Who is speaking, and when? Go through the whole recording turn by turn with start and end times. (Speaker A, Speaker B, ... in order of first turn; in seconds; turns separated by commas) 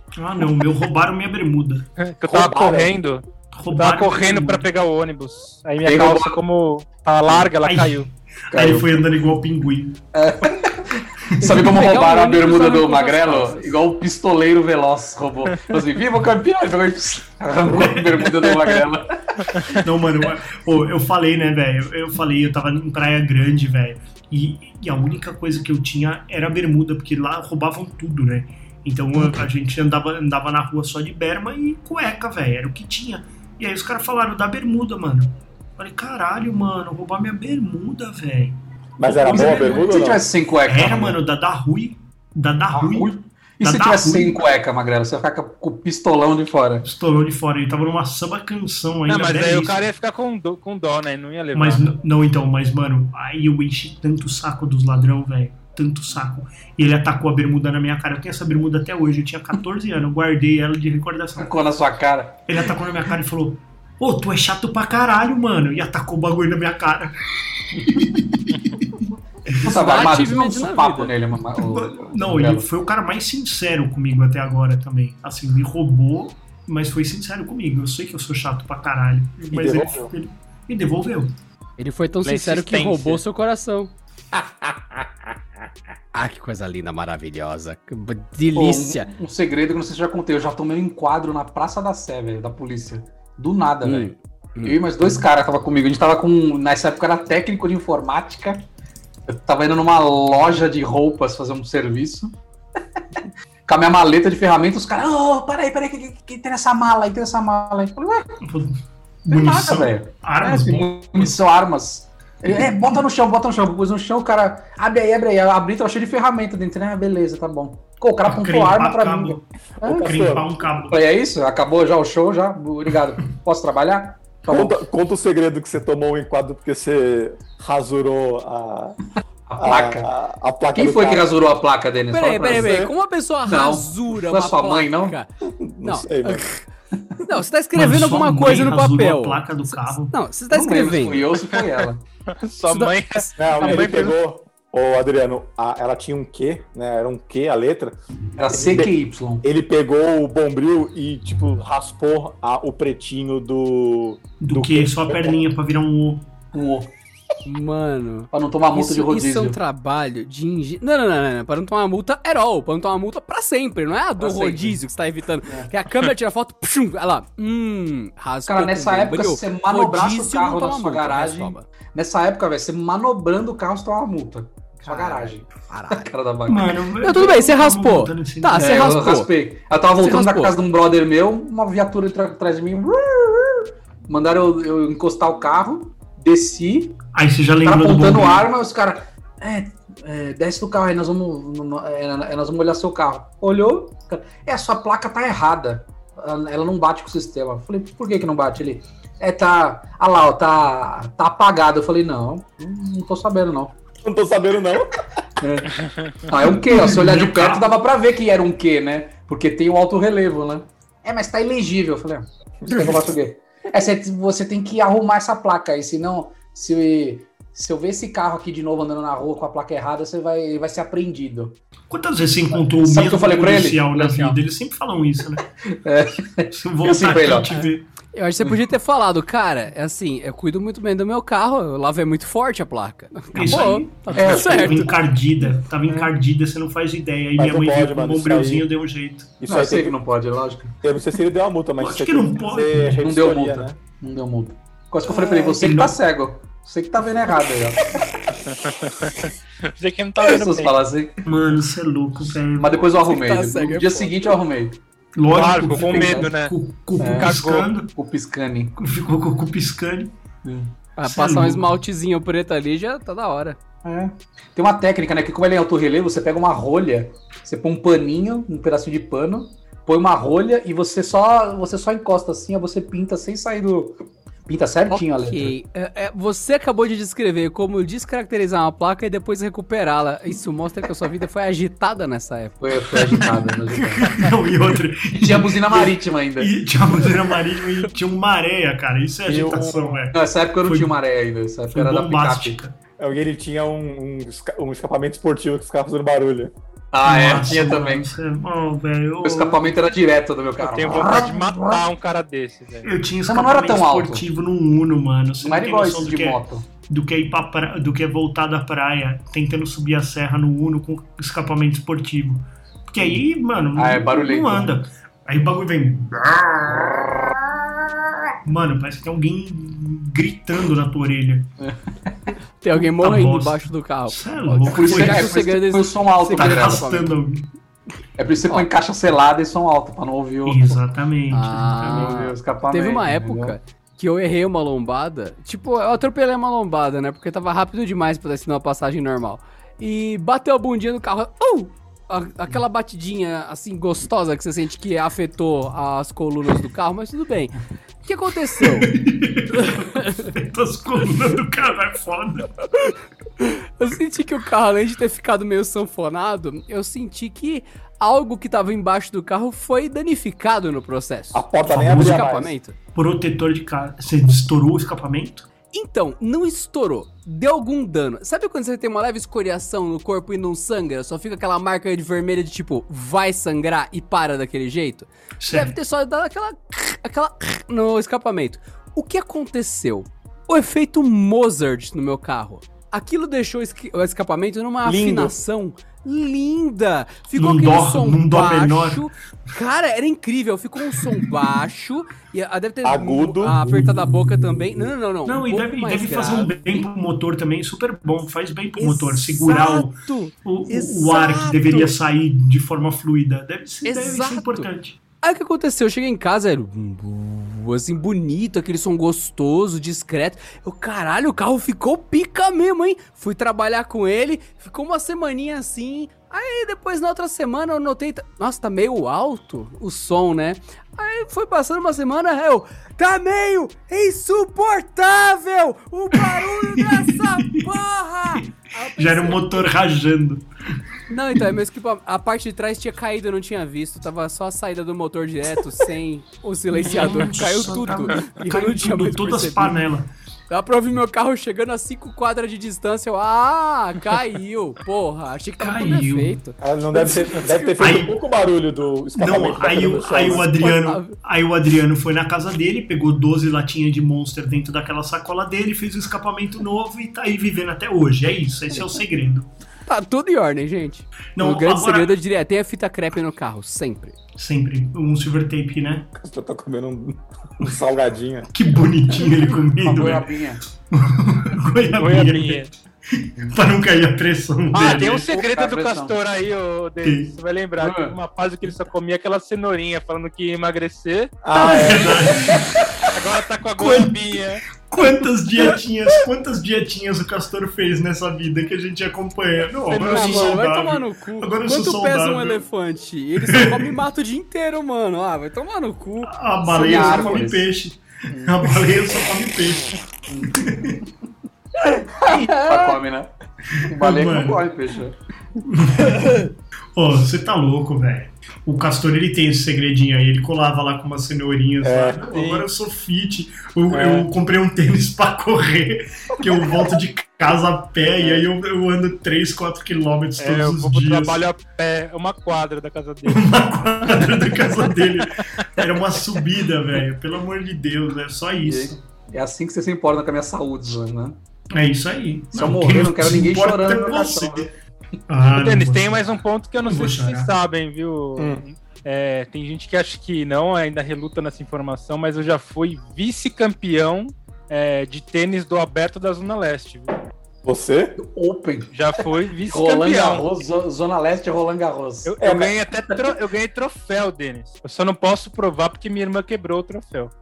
Speaker A: 0.2-1.9, Speaker B: 2.0-8.1, Speaker C: 2.2-3.0, Speaker A: 3.5-4.6, Speaker D: 5.8-6.4, Speaker A: 7.6-10.0, Speaker D: 8.5-8.9, Speaker D: 10.1-19.8, Speaker E: 11.5-13.7, Speaker A: 17.6-18.4, Speaker A: 19.7-39.9, Speaker C: 39.0-40.2, Speaker D: 39.2-41.2, Speaker A: 40.6-44.4, Speaker D: 42.7-46.8, Speaker A: 46.8-49.8, Speaker B: 49.1-51.9, Speaker A: 51.5-61.5, Speaker D: 61.4-62.4, Speaker A: 62.5-67.1, Speaker A: 67.7-68.9, Speaker D: 69.5-72.6, Speaker E: 69.5-71.1, Speaker A: 71.6-81.3, Speaker C: 79.5-80.1, Speaker E: 81.8-83.9, Speaker B: 82.2-83.2, Speaker C: 84.4-84.7, Speaker E: 86.1-89.1, Speaker D: 88.5-94.1, Speaker E: 93.8-94.8, Speaker D: 94.6-98.6, Speaker D: 99.3-102.3, Speaker D: 103.2-108.3, Speaker A: 108.4-111.3, Speaker D: 109.3-120.1, Speaker A: 118.2-121.0, Speaker C: 119.8-120.5, Speaker D: 120.8-124.8, Speaker C: 124.5-129.0, Speaker D: 129.5-130.1, Speaker C: 129.6-131.3, Speaker D: 130.7-132.9, Speaker E: 132.1-135.3, Speaker C: 132.4-132.9, Speaker D: 133.4-135.2, Speaker C: 135.4-136.5, Speaker E: 135.8-136.6, Speaker E: 137.2-141.3, Speaker A: 137.7-140.1, Speaker D: 140.5-142.0, Speaker B: 142.3-144.2, Speaker E: 142.7-143.4, Speaker C: 143.4-148.0, Speaker D: 148.4-149.4, Speaker C: 148.5-155.4, Speaker A: 154.4-156.3, Speaker D: 156.5-156.9, Speaker E: 157.4-171.7, Speaker D: 158.3-159.6, Speaker D: 164.2-164.8, Speaker D: 168.5-176.7, Speaker E: 174.8-176.1, Speaker A: 176.5-179.0, Speaker E: 177.0-179.3, Speaker D: 178.6-187.0, Speaker E: 180.0-180.6, Speaker A: 187.1-188.5, Speaker D: 187.6-203.7, Speaker C: 204.0-204.9, Speaker D: 205.4-221.6, Speaker B: 205.8-206.2, Speaker A: 206.4-207.7, Speaker C: 212.6-213.1, Speaker A: 221.9-225.4, Speaker D: 222.5-224.4, Speaker D: 225.6-227.5, Speaker A: 226.5-227.8, Speaker E: 227.5-234.9, Speaker A: 233.3-239.3, Speaker D: 233.4-235.0, Speaker C: 237.3-238.7, Speaker C: 239.4-239.9, Speaker D: 239.4-240.8, Speaker C: 240.8-243.8, Speaker A: 241.8-243.0, Speaker D: 242.8-248.1, Speaker A: 245.0-246.0, Speaker B: 248.4-250.8, Speaker D: 250.2-251.2, Speaker A: 251.2-252.8, Speaker D: 252.6-254.8, Speaker E: 253.0-254.1, Speaker A: 255.2-257.9, Speaker B: 255.3-256.5, Speaker D: 255.9-256.3, Speaker D: 257.0-257.4, Speaker B: 257.1-257.7, Speaker D: 257.9-258.7, Speaker A: 258.8-260.1, Speaker E: 261.0-263.6, Speaker A: 261.0-261.7, Speaker D: 263.8-275.5, Speaker E: 274.9-283.1, Speaker D: 282.6-284.2, Speaker A: 284.0-290.9, Speaker D: 285.1-287.3, Speaker C: 289.2-289.9, Speaker D: 290.1-292.6, Speaker A: 291.7-292.7, Speaker C: 293.0-296.5, Speaker D: 296.9-298.1, Speaker A: 297.0-299.7, Speaker D: 299.2-301.8, Speaker B: 300.6-302.9, Speaker A: 302.8-317.1, Speaker D: 303.2-304.2, Speaker D: 305.4-306.6, Speaker D: 313.8-314.7, Speaker A: 318.4-321.5, Speaker D: 321.6-322.3, Speaker E: 322.6-327.1, Speaker A: 322.8-325.4, Speaker D: 324.7-326.9, Speaker A: 326.3-327.5, Speaker D: 328.2-330.8, Speaker A: 330.4-332.2, Speaker E: 331.3-348.9, Speaker D: 331.9-333.6, Speaker A: 348.6-352.5, Speaker E: 349.5-350.3, Speaker E: 353.4-362.8, Speaker C: 361.3-362.5, Speaker A: 361.7-362.3, Speaker A: 362.9-365.5, Speaker E: 365.7-396.9, Speaker A: 375.4-375.8, Speaker C: 384.8-385.3, Speaker A: 387.4-389.0, Speaker C: 392.8-393.7, Speaker A: 395.2-405.0, Speaker E: 398.8-401.9, Speaker E: 403.8-404.7, Speaker E: 405.2-429.6, Speaker A: 426.3-427.6, Speaker A: 428.9-430.4, Speaker E: 431.1-439.8, Speaker A: 436.8-440.1, Speaker E: 440.5-447.7, Speaker A: 445.6-446.4, Speaker C: 446.6-450.7, Speaker A: 447.8-448.1, Speaker A: 449.2-459.5, Speaker E: 450.4-451.1, Speaker E: 459.9-464.1, Speaker A: 461.4-462.1, Speaker A: 464.4-466.1, Speaker C: 466.1-468.5, Speaker A: 468.5-470.3, Speaker D: 469.8-470.6, Speaker A: 470.9-475.3, Speaker B: 472.0-472.7, Speaker B: 474.7-481.4, Speaker D: 474.8-476.2, Speaker A: 477.0-477.3, Speaker D: 477.8-478.2, Speaker C: 481.4-482.7, Speaker A: 481.5-482.6, Speaker B: 483.1-484.6, Speaker A: 483.8-484.2, Speaker A: 484.8-492.6, Speaker B: 489.9-490.6, Speaker E: 490.0-496.3, Speaker A: 493.4-493.9, Speaker A: 496.2-501.0, Speaker D: 496.6-497.6, Speaker D: 498.3-498.6, Speaker D: 500.3-500.6, Speaker D: 501.8-505.2, Speaker A: 503.8-504.6, Speaker A: 505.6-521.4, Speaker C: 511.8-512.2, Speaker B: 512.3-512.7, Speaker C: 513.9-514.2, Speaker B: 520.4-523.5, Speaker A: 523.2-529.0, Speaker D: 528.6-531.4, Speaker A: 531.7-534.7, Speaker D: 532.5-534.7, Speaker A: 535.3-537.5, Speaker B: 535.5-547.1, Speaker C: 538.4-538.6, Speaker C: 547.6-548.2, Speaker D: 548.2-548.9, Speaker B: 548.9-550.5, Speaker D: 549.6-553.4, Speaker B: 552.2-557.3